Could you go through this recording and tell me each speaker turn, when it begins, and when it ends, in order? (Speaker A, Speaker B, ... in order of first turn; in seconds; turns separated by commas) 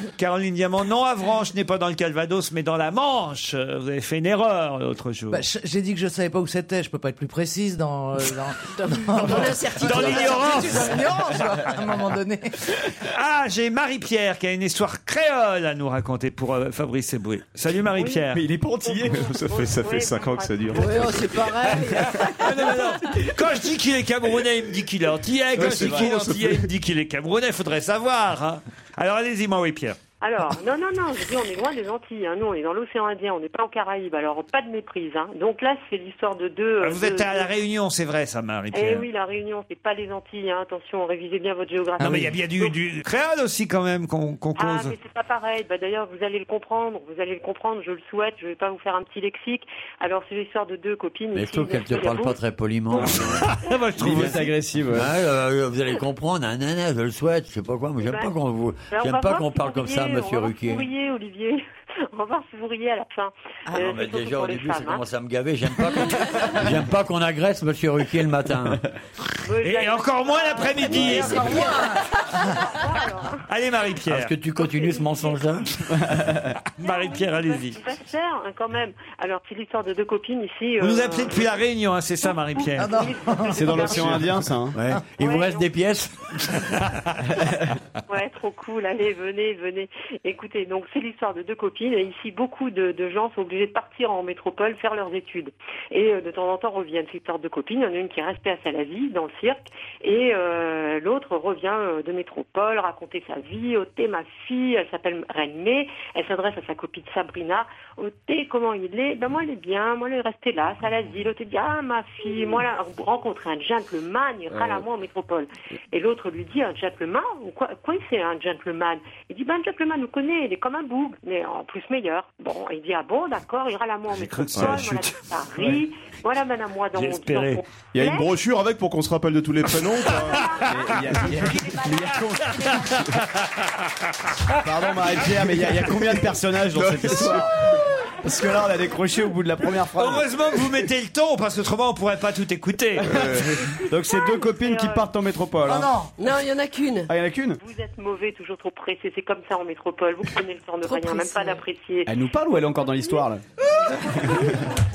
Speaker A: 0.2-5.5, Speaker B: 5.3-12.7, Speaker C: 8.7-11.1, Speaker A: 9.8-10.9, Speaker A: 13.0-18.4, Speaker D: 18.0-18.3, Speaker E: 18.3-19.4, Speaker D: 18.8-21.5, Speaker F: 19.1-21.3, Speaker C: 20.7-23.3, Speaker A: 22.2-30.0, Speaker F: 25.6-26.7, Speaker E: 25.6-26.3, Speaker D: 30.2-37.5, Speaker A: 36.8-39.1, Speaker D: 38.7-42.7, Speaker A: 42.0-45.0, Speaker B: 42.0-42.3, Speaker D: 44.6-52.4, Speaker G: 51.3-53.5, Speaker D: 52.9-53.2, Speaker A: 52.9-54.5, Speaker E: 54.0-55.1, Speaker G: 54.9-60.9, Speaker D: 58.0-58.3, Speaker D: 58.9-65.1, Speaker G: 63.7-68.8, Speaker D: 69.5-73.4, Speaker A: 69.6-71.7, Speaker B: 71.4-72.6, Speaker A: 73.5-74.3, Speaker G: 74.1-75.7, Speaker D: 74.6-75.4, Speaker E: 76.1-76.5, Speaker A: 76.8-77.8, Speaker D: 76.8-81.6, Speaker A: 80.8-82.9, Speaker D: 82.2-84.3, Speaker B: 82.8-84.1, Speaker E: 83.5-84.8, Speaker G: 84.7-86.6, Speaker D: 85.2-85.7, Speaker D: 88.1-128.3, Speaker A: 124.1-125.8, Speaker F: 124.6-124.8, Speaker A: 126.9-127.6, Speaker F: 127.9-130.6, Speaker D: 130.1-130.6, Speaker A: 130.3-130.6, Speaker E: 130.6-133.2, Speaker A: 131.4-133.5, Speaker E: 134.6-137.5, Speaker F: 136.8-137.5, Speaker E: 138.2-140.7, Speaker A: 140.0-143.2, Speaker E: 143.0-145.9, Speaker F: 143.0-143.8, Speaker D: 143.6-145.1, Speaker B: 145.7-146.2, Speaker C: 146.2-147.1, Speaker E: 147.1-147.6, Speaker D: 147.6-153.2, Speaker C: 150.8-151.7, Speaker E: 152.1-153.4, Speaker B: 153.9-154.5, Speaker E: 154.0-154.7